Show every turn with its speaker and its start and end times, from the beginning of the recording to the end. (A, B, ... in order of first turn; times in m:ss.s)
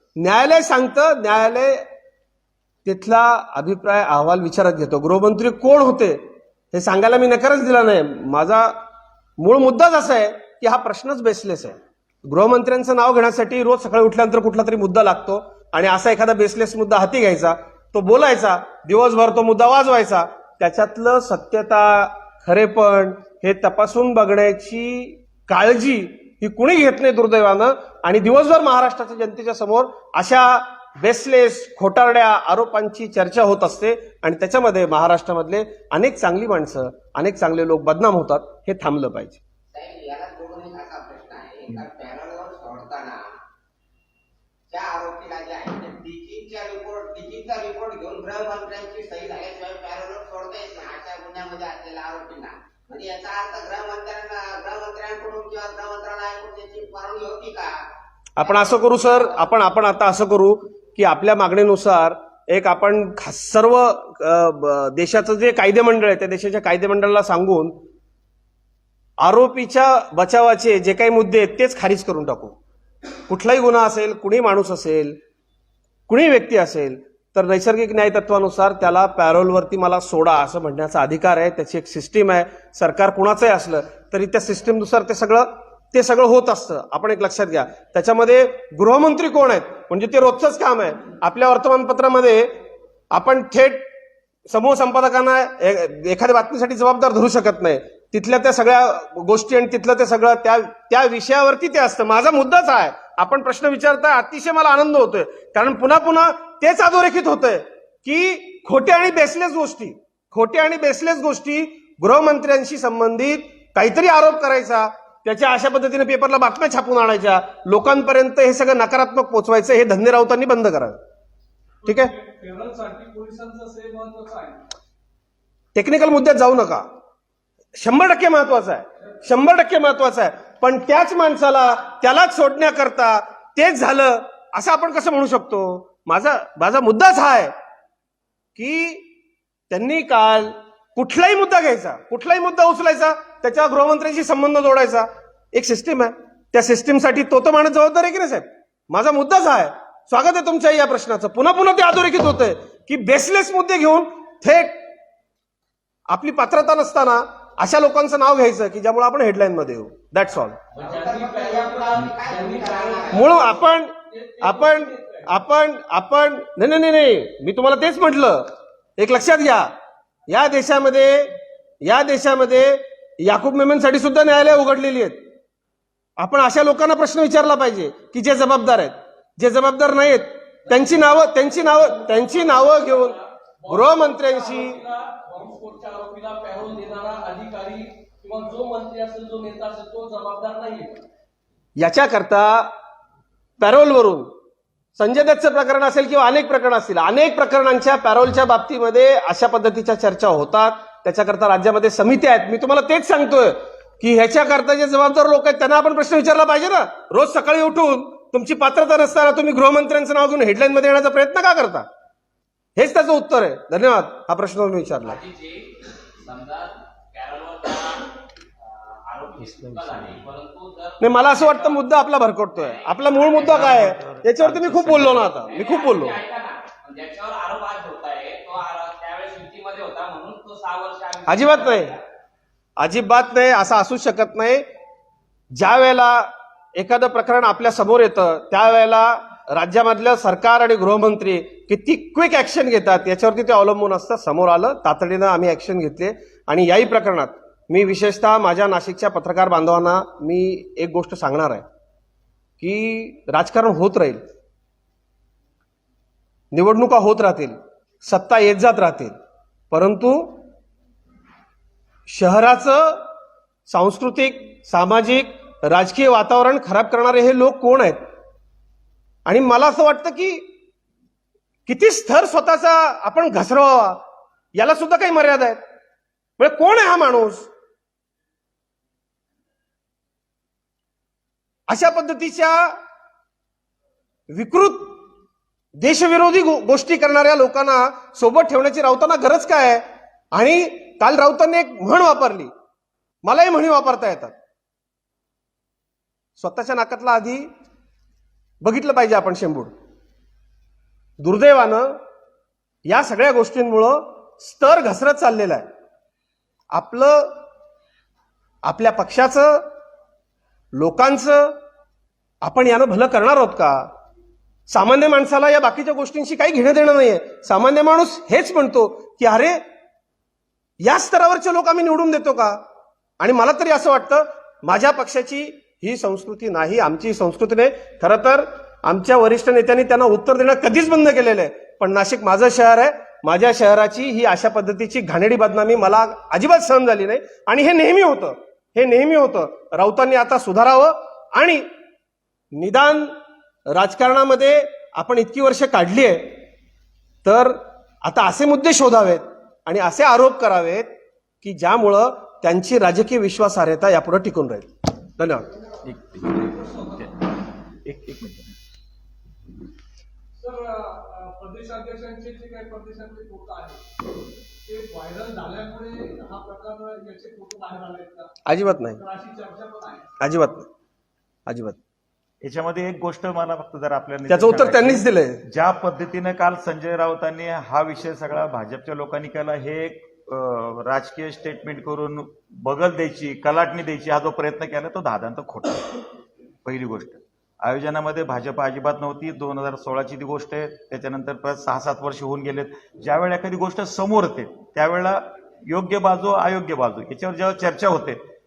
0:00.2-0:01.9 A
0:02.8-0:08.8 A
0:09.4-0:39.4 A
0:39.7-0:43.3 B
0:44.7-0:57.8 B
0:58.4-1:07.8 A
0:58.4-0:59.5 B
1:09.2-1:12.6 A
1:13.3-1:15.2 A
1:16.1-1:32.5 A
1:33.1-1:33.9 A
1:34.5-2:01.0 A
2:01.8-2:04.6 C
2:01.8-2:02.1 A
2:05.7-2:06.9 A
2:07.7-2:17.5 A
2:18.6-2:19.1 A
2:19.7-2:34.8 A
2:36.1-2:40.6 A
2:40.7-2:43.1 D
2:40.8-2:43.5 B
2:40.8-2:41.1 C
2:41.8-2:43.5 C
2:43.1-2:49.7 A
2:44.1-2:45.4 C
2:50.3-2:55.2 A
2:56.2-3:03.2 A
3:00.7-3:11.0 C
3:03.7-3:04.8 A
3:11.8-3:12.8 A
3:13.6-3:14.3 A
3:15.0-3:31.9 A
3:32.8-3:35.2 A
3:35.0-3:41.9 D
3:41.0-3:46.2 A
3:42.5-3:43.9 D
3:43.4-3:45.3 E
3:45.2-3:52.0 D
3:51.2-3:51.9 A
3:52.8-3:54.7 A
3:55.5-4:11.6 A
4:12.6-4:14.2 A
4:16.5-4:19.2 A
4:19.7-4:20.4 A
4:22.1-4:23.1 A
4:23.7-4:28.0 A
4:29.2-4:30.5 A
4:31.7-4:35.6 A
4:36.4-4:37.5 A
4:41.7-4:42.8 A
4:44.3-4:45.0 A
4:45.8-4:52.5 A
4:53.2-4:54.4 A
4:56.4-4:57.5 A
4:58.6-4:59.7 A
5:01.2-5:02.0 A
5:02.8-5:05.7 A
5:06.7-5:07.4 A
5:08.6-5:09.7 A
5:10.7-5:11.6 A
5:12.4-5:13.9 A
5:14.7-5:19.6 A
5:20.8-5:22.6 A
5:23.2-5:41.7 A
5:42.5-5:43.1 A
5:43.7-5:46.4 A
5:47.2-5:55.5 A
5:55.8-5:57.1 E
5:56.1-5:57.1 C
5:57.8-5:58.6 E
6:00.4-6:03.8 C
6:04.6-6:08.4 C
6:08.4-6:09.0 A
6:08.9-6:10.2 C
6:10.2-6:10.7 A
6:11.5-6:11.8 A
6:12.4-6:26.0 E
6:14.3-6:15.4 A
6:26.6-6:38.2 E